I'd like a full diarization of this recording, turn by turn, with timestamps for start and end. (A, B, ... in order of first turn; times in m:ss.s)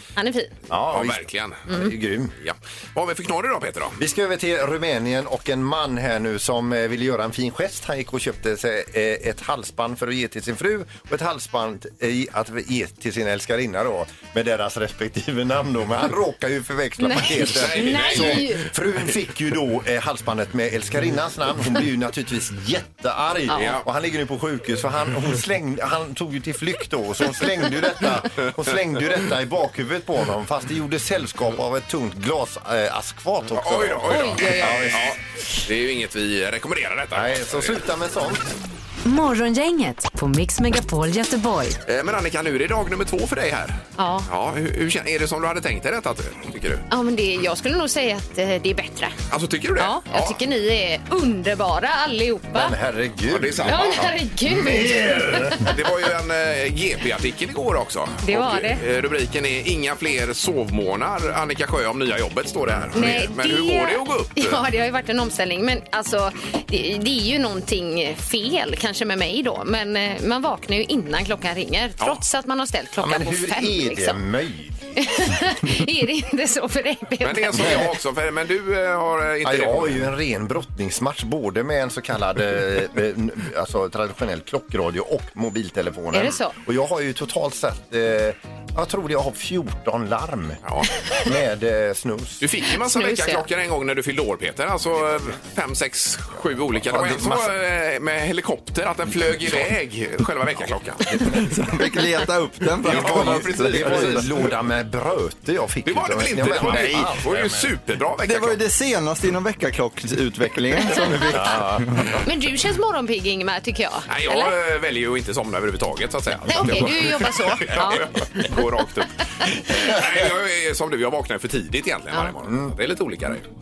0:00.2-0:00.5 A
0:00.7-0:02.3 B
0:00.9-0:01.8 C
0:02.4-0:04.0 C
0:04.0-0:35.1 B
0:17.0-0:18.7 A
0:17.4-0:18.5 C
0:23.5-0:23.8 C
0:23.5-0:23.8 A
0:33.5-0:37.8 C
0:34.1-0:35.0 A
0:37.1-0:38.4 B
0:39.0-0:41.8 D
0:41.9-0:46.9 C
0:44.0-0:44.3 A
0:46.9-0:49.2 A
0:49.3-0:50.4 C
0:49.8-0:52.8 A
0:52.5-0:55.8 B
0:53.3-0:54.1 C
0:53.7-0:55.6 A
0:55.6-1:04.6 C
0:58.2-0:58.8 A
1:02.7-1:03.1 B
1:02.9-1:14.2 A
1:13.0-1:14.9 B
1:15.0-1:17.9 A
1:17.2-1:20.1 C
1:19.4-1:30.6 B
1:26.1-1:26.6 A
1:30.6-1:30.9 C
1:31.1-1:32.4 B
1:32.4-1:41.4 C
1:32.8-1:33.4 A
1:36.8-1:37.5 B
1:41.2-1:44.4 E
1:42.8-1:44.5 C
1:42.8-1:47.8 B
1:45.8-1:48.6 C
1:46.7-1:47.0 E
1:48.2-1:52.1 E
1:51.2-1:52.1 B
1:52.2-1:54.6 A
1:54.1-2:03.5 C
1:56.5-1:58.1 A
2:02.4-2:02.7 B